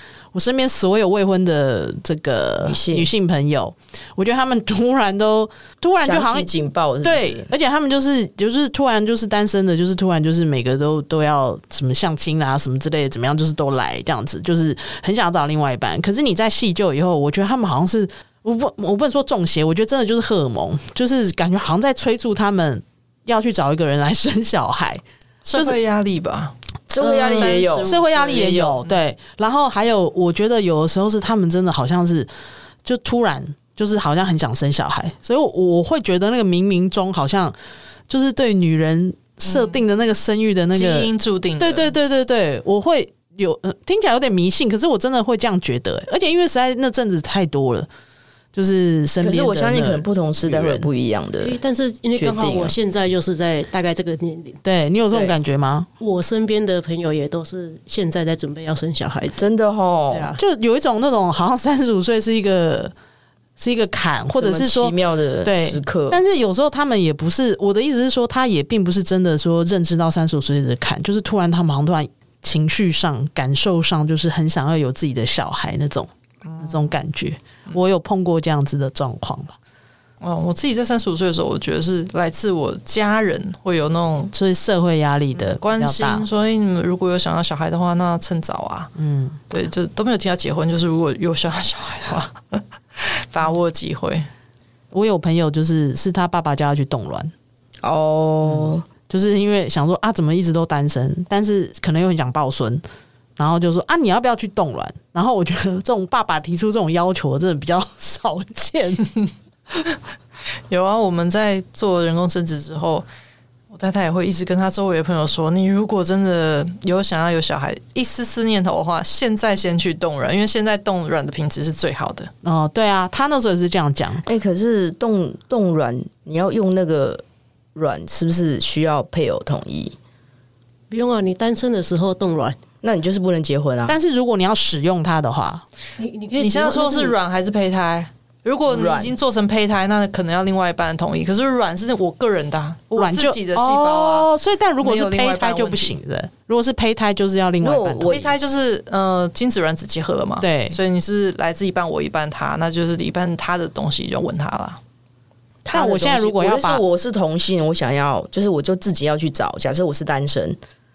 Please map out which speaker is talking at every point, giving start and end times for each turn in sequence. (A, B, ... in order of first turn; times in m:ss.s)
0:00.3-0:06.5 A
0:02.6-0:03.1 B
0:06.0-0:07.5 B
0:07.0-0:25.0 A
0:25.4-0:26.5 C
0:26.9-0:28.8 B
0:27.0-0:28.5 C
0:27.8-0:32.3 A
0:32.8-0:37.5 A
0:38.1-0:47.9 A
0:39.4-0:39.8 C
0:40.7-0:41.9 C
0:48.5-0:50.9 A
0:49.2-0:51.6 B
0:51.4-0:54.6 D
0:52.1-0:52.8 B
0:54.6-0:55.9 A
0:56.0-0:59.4 D
0:59.4-1:00.3 B
1:00.1-1:00.4 D
1:00.4-1:02.9 A
1:03.6-1:19.6 A
1:04.3-1:06.2 B
1:16.5-1:16.7 C
1:20.2-1:24.3 C
1:24.3-1:26.2 A
1:25.4-1:28.9 C
1:29.0-1:29.4 A
1:29.5-1:34.3 C
1:34.9-1:37.3 A
1:37.8-1:38.8 B
1:39.1-1:42.8 A
1:43.4-1:49.0 A
1:50.7-1:53.1 C
1:53.7-2:02.3 C
2:02.4-2:04.2 A
2:04.2-2:07.2 B
2:07.7-2:10.0 B
2:10.9-2:12.6 D
2:12.8-2:14.0 B
2:13.9-2:15.6 A
2:16.0-2:17.1 D
2:16.4-2:24.3 C
2:18.7-2:19.2 B
2:23.0-2:28.2 A
2:24.8-2:25.9 C
2:27.6-2:28.3 B
2:28.1-2:34.8 C
2:30.4-2:30.8 A
2:35.6-2:40.6 B
2:35.7-2:36.8 A